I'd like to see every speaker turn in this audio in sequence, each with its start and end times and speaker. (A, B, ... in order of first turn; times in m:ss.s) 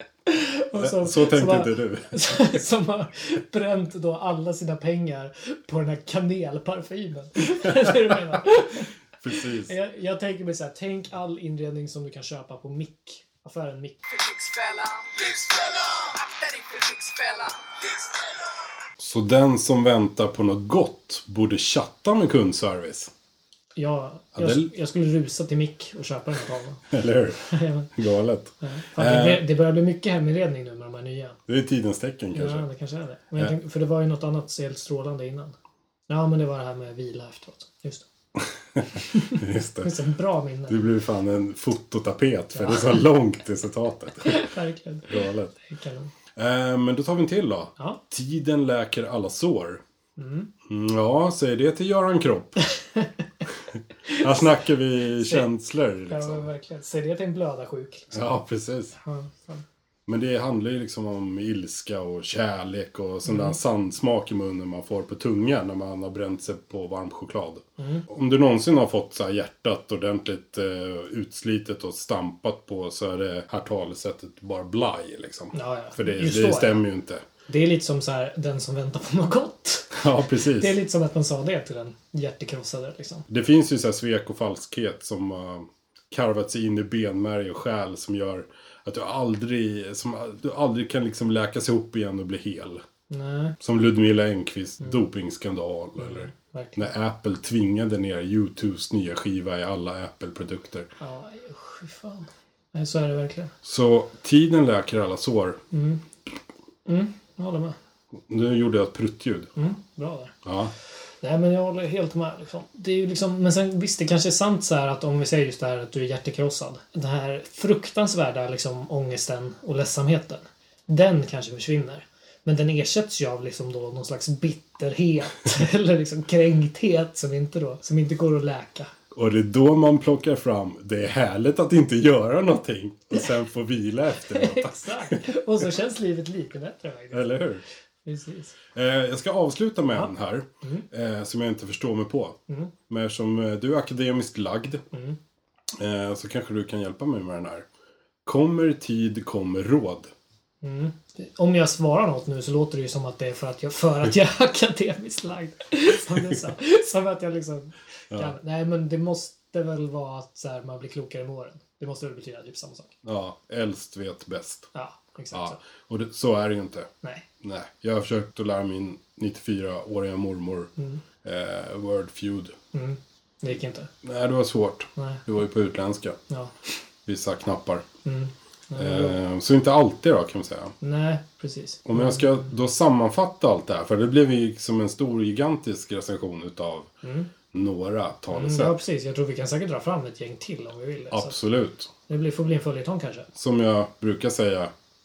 0:00.3-0:14.0 A
0:00.8-0:02.4 B
0:09.2-0:09.7 B
0:14.1-0:18.5 C
0:19.0-0:23.1 B
0:23.8-0:26.9 A
0:24.4-0:24.7 B
0:26.9-0:29.4 B
0:27.4-0:27.9 A
0:28.6-0:31.4 A
0:31.5-0:32.6 B
0:32.3-0:35.6 A
0:36.1-0:38.1 A
0:38.4-0:40.0 B
0:38.9-0:40.8 A
0:40.7-0:44.5 B
0:42.6-0:43.0 A
0:44.2-0:46.1 A
0:45.1-0:45.5 B
0:46.4-0:49.8 B
0:50.2-0:50.5 A
0:50.7-0:52.6 B
0:53.7-0:56.5 B
0:54.1-0:54.5 A
0:55.1-0:55.5 A
0:56.1-0:58.1 A
0:58.1-0:59.0 B
0:59.0-0:59.6 A
1:00.1-1:17.2 B
1:03.3-1:03.6 A
1:07.8-1:08.1 A
1:15.5-1:16.8 A
1:17.5-1:23.3 A
1:19.9-1:20.8 B
1:23.3-1:32.8 B
1:33.1-1:33.6 A
1:33.6-1:40.9 B
1:36.0-1:36.8 A
1:41.0-1:43.5 A
1:43.6-1:45.6 B
1:45.7-1:46.0 A
1:46.9-1:47.8 A
1:48.3-1:49.5 B
1:49.6-1:50.4 A
1:50.4-1:50.7 B
1:51.2-2:08.9 A
2:09.1-2:15.4 B
2:14.2-2:17.4 A
2:17.1-2:17.6 B
2:18.0-2:18.6 A
2:18.7-2:24.8 B
2:24.9-2:25.2 A
2:25.8-2:27.7 B
2:28.3-2:30.1 B
2:30.6-2:42.9 A
2:43.0-2:44.7 B
2:44.7-2:45.6 A
2:45.3-2:46.9 B
2:47.4-2:50.7 B
2:50.8-2:51.0 A
2:51.2-2:52.6 B
2:52.7-2:53.9 A
2:54.0-2:56.2 B
2:55.0-2:55.2 A
2:57.1-2:57.9 B
2:58.0-2:59.2 A
2:58.8-3:00.7 B
3:00.8-3:02.4 A
3:01.9-3:06.9 B
3:07.0-3:07.3 A
3:07.5-3:08.8 B
3:08.3-3:11.4 A
3:11.1-3:11.9 B
3:12.1-3:13.3 A
3:13.4-3:14.7 B